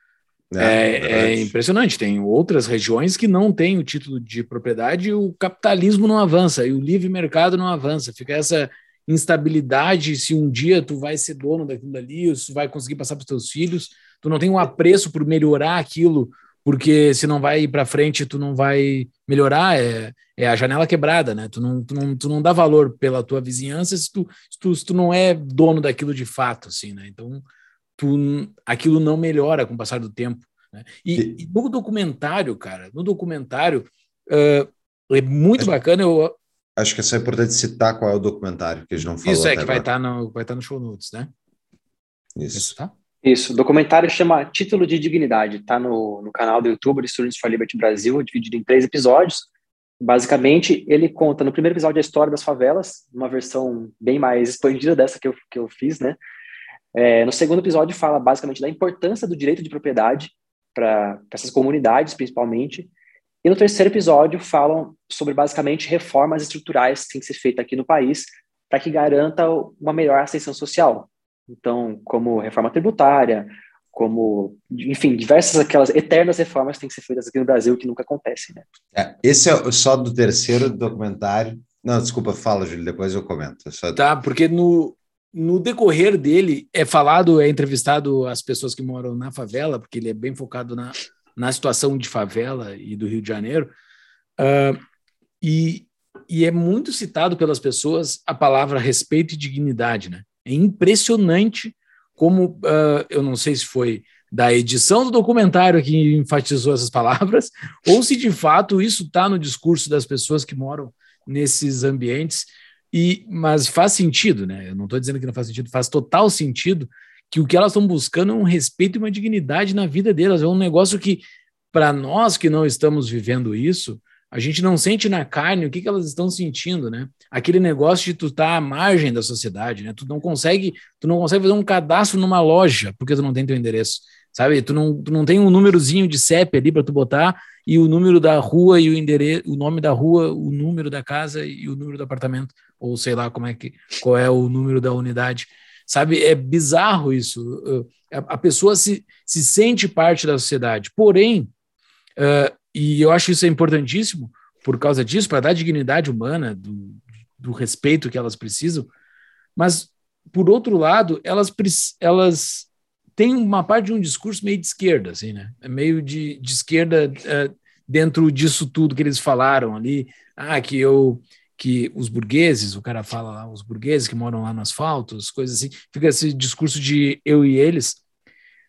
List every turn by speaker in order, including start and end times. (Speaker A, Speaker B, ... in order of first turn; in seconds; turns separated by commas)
Speaker A: 0.5-1.5, Speaker B: 0.6-27.4, Speaker B: 28.0-36.4, Speaker A: 36.8-39.9, Speaker B: 39.2-41.3, Speaker A: 42.4-42.7, Speaker B: 42.5-42.9, Speaker C: 43.2-49.5, Speaker C: 50.0-56.2, Speaker C: 57.0-62.9, Speaker C: 63.4-78.7, Speaker A: 78.9-84.0, Speaker B: 84.0-93.7, Speaker B: 94.4-94.8, Speaker B: 95.4-151.5, Speaker B: 152.2-158.9, Speaker B: 159.6-178.0